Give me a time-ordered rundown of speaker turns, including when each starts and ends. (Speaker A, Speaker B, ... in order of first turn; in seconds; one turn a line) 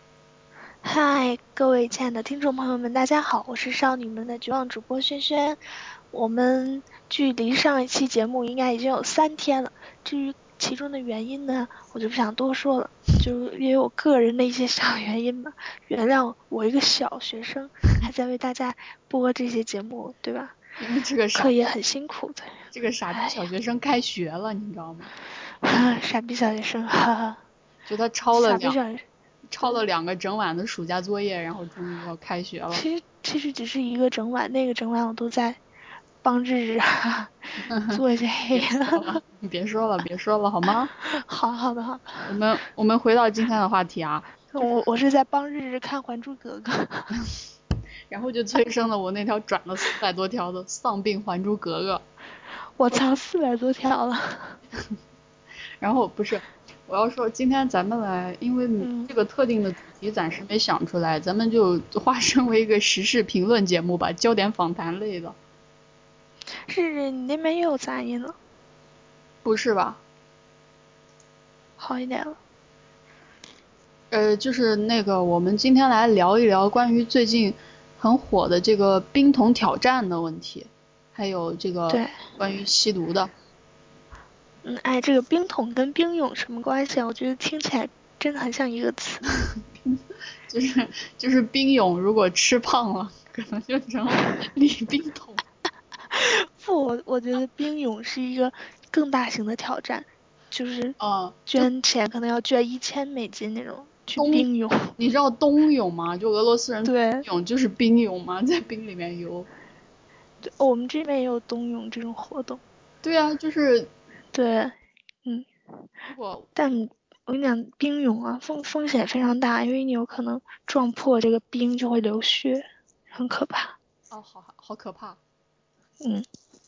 Speaker A: 0.8-5.6
Speaker A: 6.1-20.6
Speaker B: 20.8-21.7
Speaker A: 21.4-22.5
Speaker B: 22.7-25.1
Speaker A: 23.1-23.4
Speaker A: 25.6-27.4
Speaker B: 27.9-28.8
Speaker A: 28.3-29.1
Speaker B: 29.5-32.8
Speaker A: 32.7-35.6
Speaker A: 36.2-39.2
Speaker B: 37.7-38.0
Speaker B: 38.5-40.9
Speaker A: 41.0-42.4
Speaker B: 42.3-44.3
Speaker A: 44.5-47.1
Speaker B: 48.1-52.0
Speaker A: 52.8-54.6
Speaker B: 55.8-65.4
Speaker A: 58.8-59.1
Speaker A: 66.7-68.4
Speaker B: 69.4-70.0
Speaker A: 71.8-72.4
Speaker B: 74.1-83.3
Speaker A: 81.9-82.2
Speaker A: 84.6-89.2
Speaker B: 89.8-95.4
Speaker A: 96.1-105.0
Speaker B: 101.0-101.7
Speaker B: 104.2-109.5
Speaker A: 106.8-107.3
Speaker A: 110.4-112.6
Speaker B: 113.0-113.9
Speaker A: 114.3-115.5
Speaker B: 116.1-116.5
Speaker A: 116.6-123.8
Speaker B: 124.1-125.2